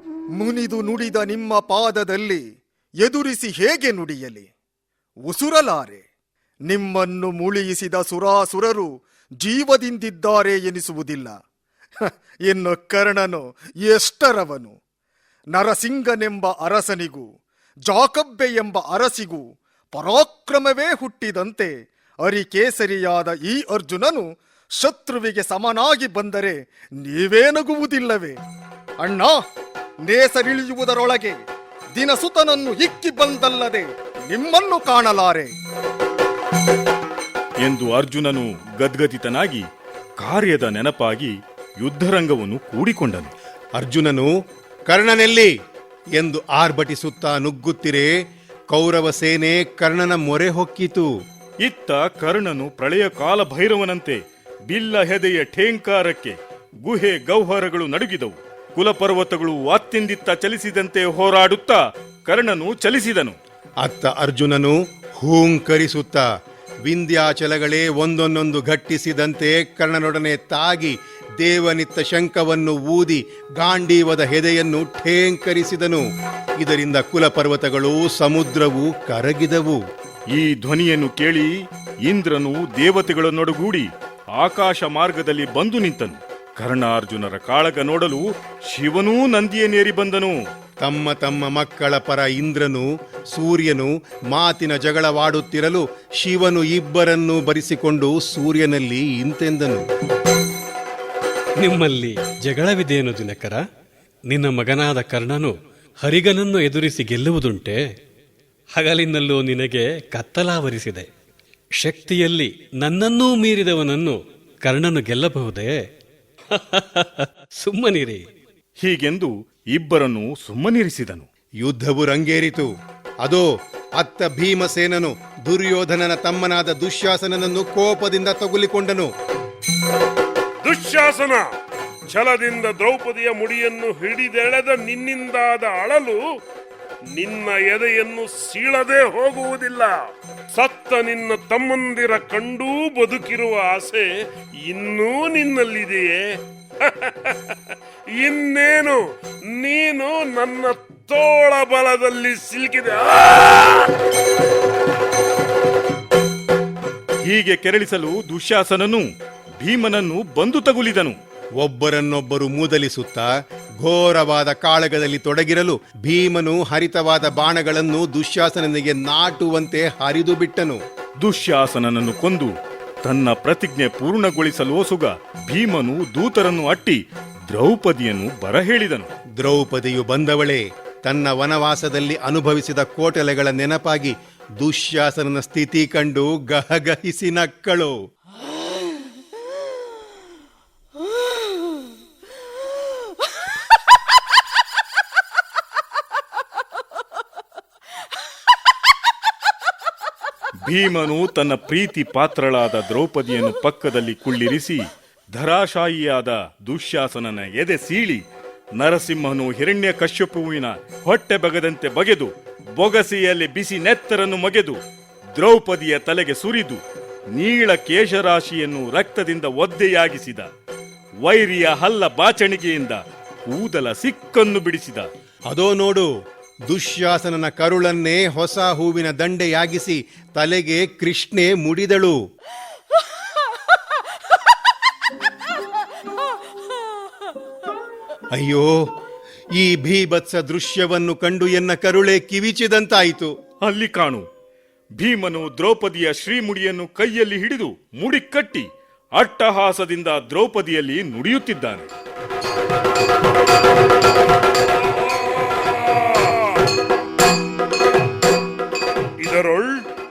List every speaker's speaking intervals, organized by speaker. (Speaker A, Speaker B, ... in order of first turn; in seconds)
Speaker A: 0.4-2.4, 3.0-4.5, 5.3-6.0, 6.7-8.9, 9.4-11.3, 12.5-14.8, 15.5-17.3, 17.9-24.3, 24.8-28.4, 29.0-29.4, 30.0-31.4, 31.9-35.5
Speaker B: 37.6-39.6, 40.2-43.3, 51.6-63.4, 80.3-81.5, 82.1-90.4, 118.8-121.3, 157.2-159.1, 159.6-161.2, 171.2-172.5, 173.0-177.0, 177.5-179.1, 200.6-208.2, 208.8-214.8, 215.3-216.8, 217.3-220.5, 221.2-225.1, 243.6-244.2, 245.0-251.9
Speaker C: 43.8-44.3, 44.9-45.5, 46.2-48.1, 48.7-51.1, 63.8-66.2, 66.8-76.0, 76.6-79.8, 90.8-99.8, 121.6-122.7, 124.0-129.1, 161.6-163.2, 163.8-170.8, 179.4-187.9, 225.5-226.1, 226.7-232.1, 238.3-238.7, 239.6-243.3
Speaker D: 101.6-103.6, 104.3-107.9, 108.7-111.1, 111.8-115.8, 116.5-118.2
Speaker E: 130.6-131.5, 132.1-136.2, 137.1-144.1, 144.6-147.3, 148.1-153.9, 255.4-256.3, 259.2-259.7